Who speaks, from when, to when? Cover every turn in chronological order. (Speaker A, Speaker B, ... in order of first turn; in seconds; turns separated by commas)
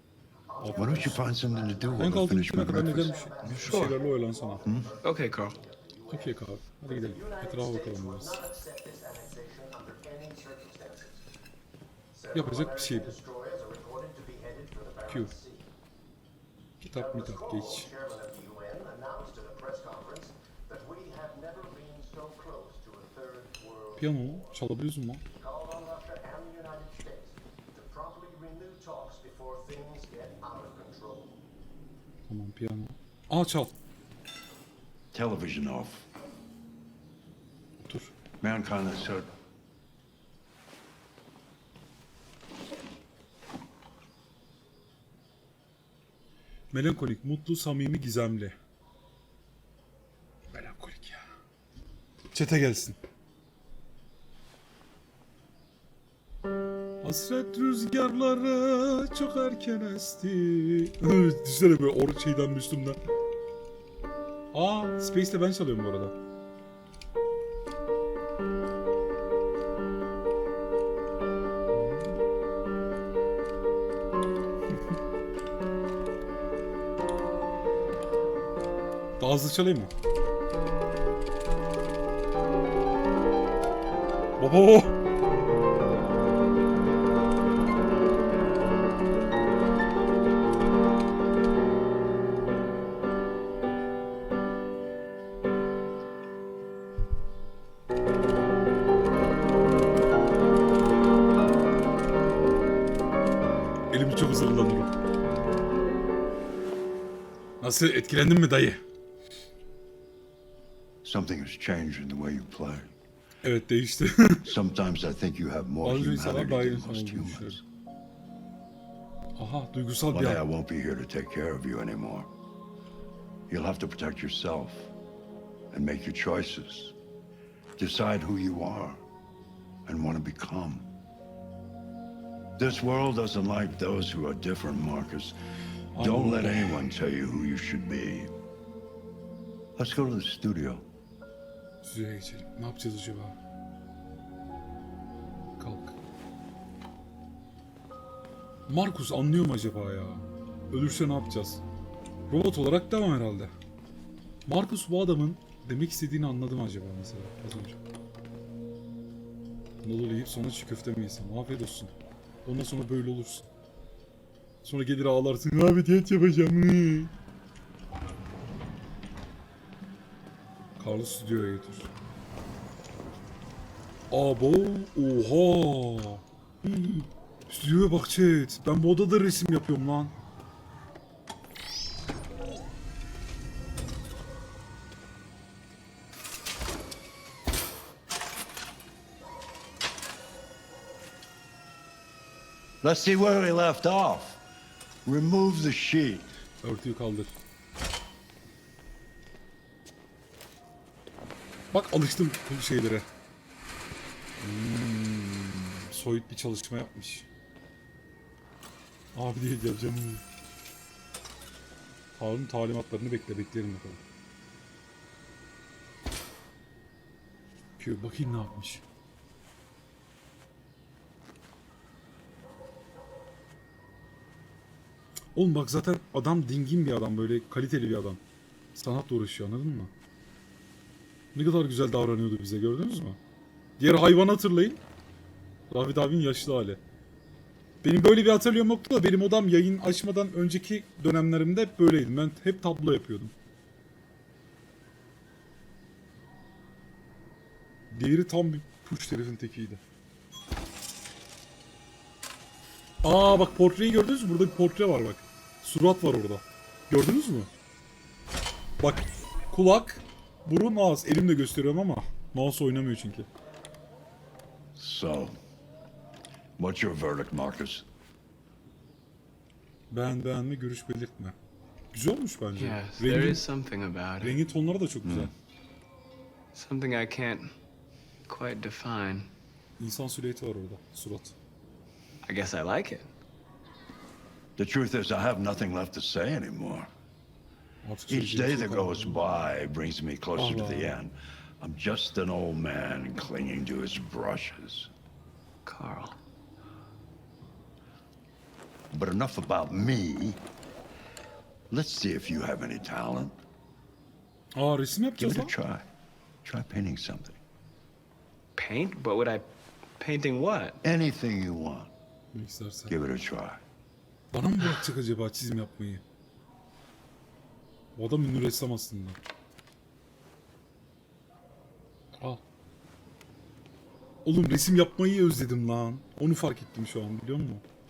Speaker A: 0.5-11.2, Speaker B: 0.6-1.2, Speaker C: 0.7-3.2, Speaker B: 1.9-4.6, Speaker D: 3.5-4.0, Speaker C: 4.6-4.9, Speaker D: 5.0-5.5, Speaker B: 6.1-8.4, Speaker A: 12.1-15.7, Speaker B: 12.3-13.2, Speaker B: 16.8-17.9, Speaker A: 16.9-24.6, Speaker B: 24.0-25.2, Speaker A: 25.3-31.4, Speaker B: 32.3-33.7, Speaker C: 35.1-36.0, Speaker B: 37.8-38.1, Speaker C: 38.4-39.3, Speaker B: 46.7-48.5, Speaker B: 50.5-51.2, Speaker B: 52.3-53.0, Speaker B: 57.0-63.0, Speaker B: 64.5-66.1, Speaker B: 71.7-72.2, Speaker B: 79.2-79.9, Speaker B: 84.4-84.9, Speaker B: 103.9-104.9, Speaker B: 107.6-108.8, Speaker C: 111.0-113.0, Speaker B: 113.4-114.5, Speaker C: 114.4-117.6, Speaker B: 115.8-117.6, Speaker B: 119.3-120.4, Speaker C: 120.1-122.3, Speaker C: 123.5-124.9, Speaker C: 125.7-126.9, Speaker C: 127.8-129.0, Speaker C: 129.8-130.9, Speaker C: 132.6-135.4, Speaker B: 135.9-136.9, Speaker C: 136.0-138.3, Speaker C: 139.8-140.8, Speaker B: 141.8-143.4, Speaker B: 145.6-146.0, Speaker B: 148.7-151.6, Speaker B: 152.3-153.5, Speaker B: 154.4-157.8, Speaker B: 159.8-161.9, Speaker B: 162.4-163.5, Speaker B: 164.6-167.1, Speaker B: 170.8-171.9, Speaker B: 174.1-180.1, Speaker C: 192.8-194.4, Speaker C: 195.0-196.3, Speaker B: 196.6-197.3, Speaker B: 201.7-203.1, Speaker B: 204.4-207.3, Speaker B: 209.1-210.2, Speaker B: 212.2-214.0, Speaker B: 217.8-218.8, Speaker B: 225.3-228.2, Speaker B: 228.7-229.9, Speaker B: 231.3-233.2, Speaker B: 233.8-234.8, Speaker B: 235.7-236.8, Speaker B: 237.8-243.3, Speaker B: 247.9-249.8, Speaker B: 253.0-257.5, Speaker B: 258.8-263.3, Speaker C: 264.8-265.3, Speaker C: 266.6-267.9, Speaker B: 269.9-271.4, Speaker B: 271.9-273.4, Speaker D: 272.6-274.4, Speaker B: 274.2-275.3, Speaker C: 275.0-275.3, Speaker D: 276.5-277.5, Speaker D: 278.3-279.3, Speaker B: 279.8-281.4, Speaker D: 282.2-283.1, Speaker C: 284.6-286.9, Speaker B: 287.8-289.2, Speaker C: 288.1-294.9, Speaker B: 290.3-291.0, Speaker D: 295.6-296.2, Speaker C: 298.9-300.4, Speaker C: 301.7-303.4, Speaker B: 304.5-305.5, Speaker C: 305.2-305.9, Speaker C: 306.4-307.4, Speaker D: 308.6-309.5, Speaker D: 310.0-310.8, Speaker C: 310.8-311.9, Speaker B: 312.3-313.0, Speaker C: 312.9-313.6, Speaker B: 314.3-316.0, Speaker B: 317.9-319.2, Speaker B: 322.2-322.4, Speaker B: 324.2-327.6